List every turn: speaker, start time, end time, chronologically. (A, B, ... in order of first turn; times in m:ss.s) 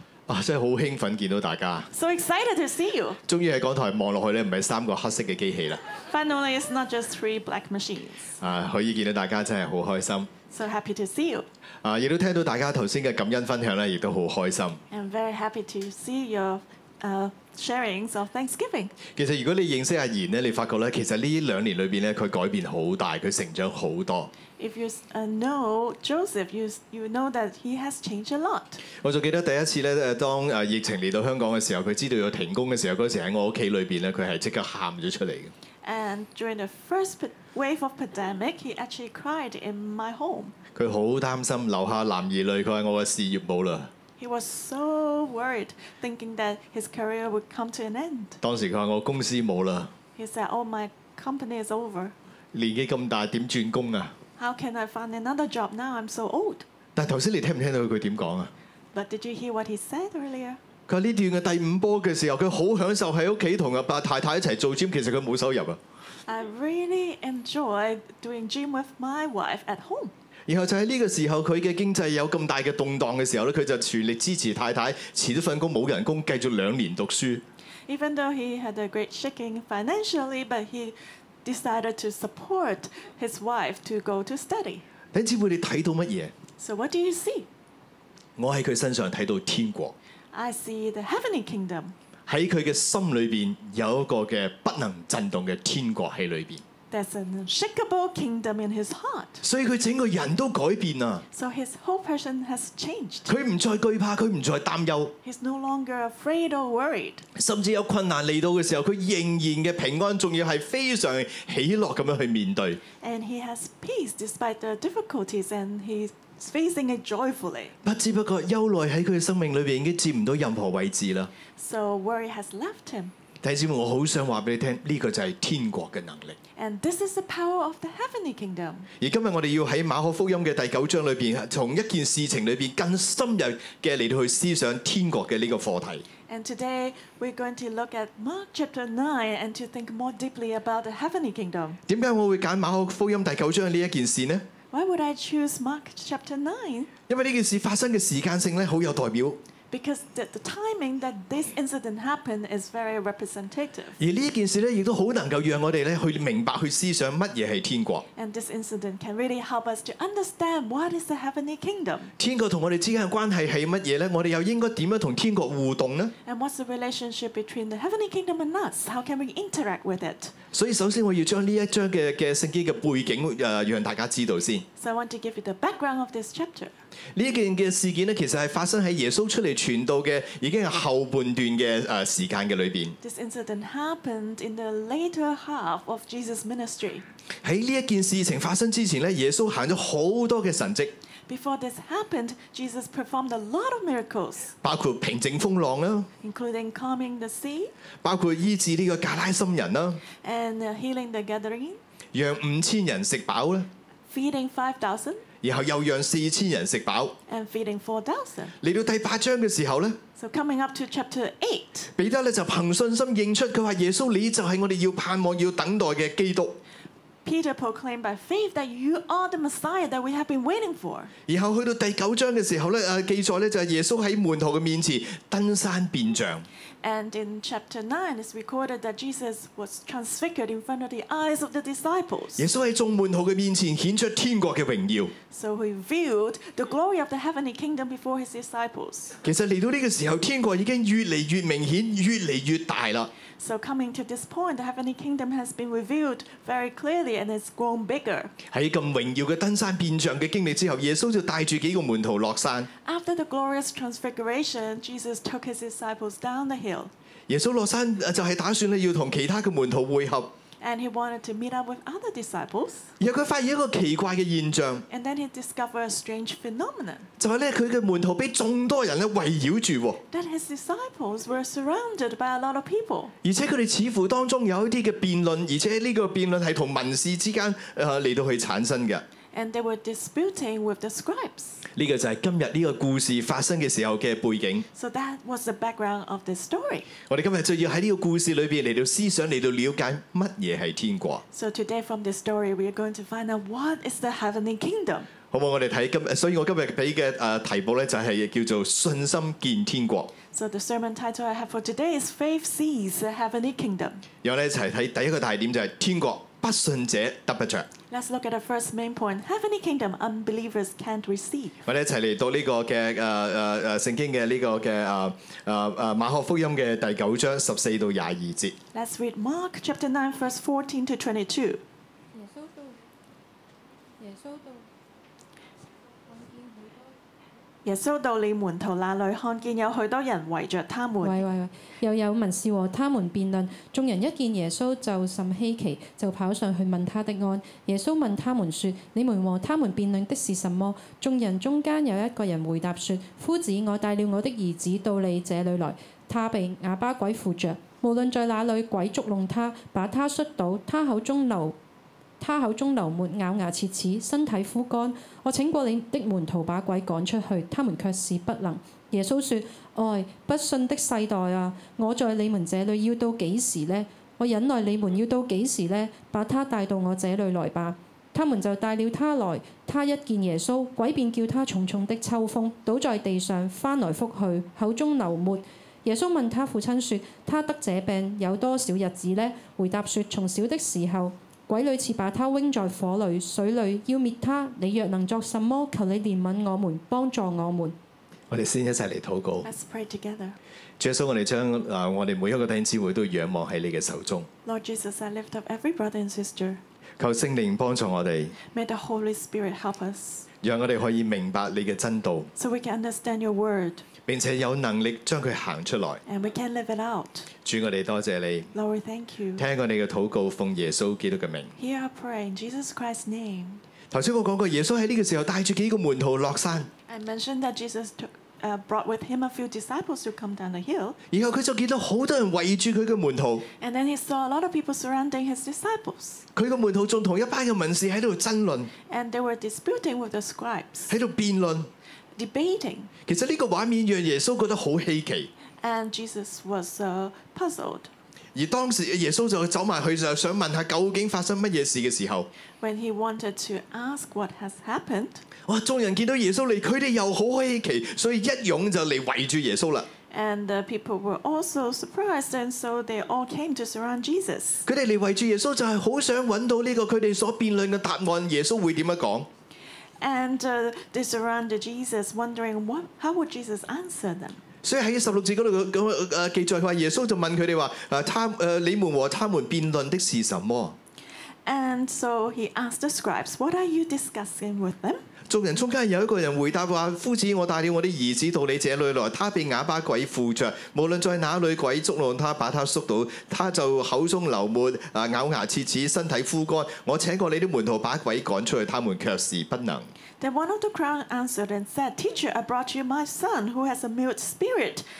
0:00.3-0:01.9 A
0:01.9-0:03.2 B
0:03.3-0:05.8 A
0:06.0-0:08.4 B
0:08.4-0:10.3 A
0:10.5-0:11.5 B
0:11.8-0:14.8 A
0:14.9-0:19.0 B
0:19.1-0:24.3 A
0:24.6-0:28.8 B
0:29.0-0:35.5 A
0:35.8-0:40.5 B
0:40.7-0:43.9 A
0:44.2-0:48.4 B
0:48.4-0:49.9 A
0:50.2-0:52.1 B
0:52.5-0:54.1 A
0:54.4-0:56.6 B
0:57.0-0:58.5 A
0:58.9-1:00.6 B
1:00.9-1:05.8 A
1:06.3-1:10.1 B
1:10.5-1:17.4 A
1:17.9-1:24.8 B
1:25.1-1:26.3 A
1:26.6-1:27.5 B
1:28.4-1:29.9 A
1:30.3-1:31.9 B
1:32.3-1:36.6 A
1:36.9-1:39.4 B
1:39.4-1:41.2 A
1:41.3-1:43.3 B
1:43.3-1:45.1 A
1:45.2-1:47.2 B
1:47.4-1:52.8 A
1:53.0-1:57.7 B
1:57.8-2:01.3 A
2:01.6-2:03.1 B
2:03.4-2:06.4 A
2:06.6-2:08.9 B
2:09.0-2:16.0 A
2:16.3-2:21.8 B
2:21.9-2:24.4 A
2:24.7-2:26.9 B
2:27.1-2:29.4 A
2:29.7-2:34.0 B
2:34.0-2:38.0 A
2:38.2-2:42.1 B
2:42.2-2:46.1 A
2:46.2-2:50.3 B
2:50.5-2:54.6 A
2:54.8-2:56.7 B
2:57.1-3:03.0 A
3:03.0-3:07.0 B
3:07.4-3:11.0 A
3:11.3-3:14.5 B
3:14.6-3:16.1 A
3:16.2-3:17.7 B
3:18.0-3:20.0 A
3:20.2-3:21.8 B
3:22.1-3:23.7 A
3:24.1-3:25.2 B
3:25.4-3:27.2 A
3:27.3-3:28.5 B
3:28.6-3:30.0 A
3:30.2-3:31.9 B
3:32.0-3:36.6 A
3:37.2-3:41.1 B
3:41.3-3:46.5 A
3:46.8-3:52.4 B
3:52.4-3:55.1 A
3:55.3-3:59.2 B
3:59.2-4:03.1 A
4:03.4-4:08.3 B
4:08.5-4:12.7 A
4:12.8-4:16.9 B
4:17.3-4:20.3 A
4:20.6-4:22.9 B
4:23.0-4:24.8 A
4:24.9-4:27.1 B
4:27.2-4:30.0 A
4:30.1-4:33.1 B
4:33.2-4:39.0 A
4:39.3-4:41.6 B
4:41.8-4:44.6 A
4:44.7-4:46.9 B
4:47.1-4:51.2 A
4:51.3-4:55.1 B
4:55.3-5:00.1 A
5:00.3-5:04.0 B
5:04.2-5:07.7 A
5:07.9-5:11.6 B
5:11.6-5:18.6 A
5:18.7-5:21.6 B
5:22.1-5:22.8 C
5:24.0-5:24.7 C
5:25.9-5:27.0 C
5:27.6-5:31.2 B
5:31.0-5:51.6 C
5:52.2-6:27.8 C
6:28.3-6:29.5 A
6:29.4-6:30.4 B
6:30.8-6:34.3 A
6:34.4-6:36.6 B
6:37.0-6:38.3 A
6:38.5-6:40.3 B
6:40.4-6:42.3 A
6:42.4-6:43.8 B
6:44.1-6:46.0 A
6:46.0-6:47.3 B
6:47.4-6:48.5 A
6:48.5-6:49.4 B
6:49.4-6:51.5 A
6:51.6-6:53.6 B
6:53.9-6:56.7 A
6:56.9-7:01.0 B
7:01.1-7:03.5 A
7:03.6-7:06.2 B
7:06.4-7:08.7 A
7:08.9-7:10.9 B
7:10.9-7:11.7 A
7:12.2-7:12.9 B
7:13.0-7:15.3 A
7:15.6-7:17.9 B
7:18.3-7:22.3 A
7:22.6-7:25.2 B
7:25.4-7:29.9 A
7:30.1-7:34.6 B
7:34.6-7:39.3 A
7:40.0-7:44.4 B
7:44.6-7:50.8 A
7:51.4-7:55.1 B
7:55.3-8:09.9 A
8:10.2-8:14.8 B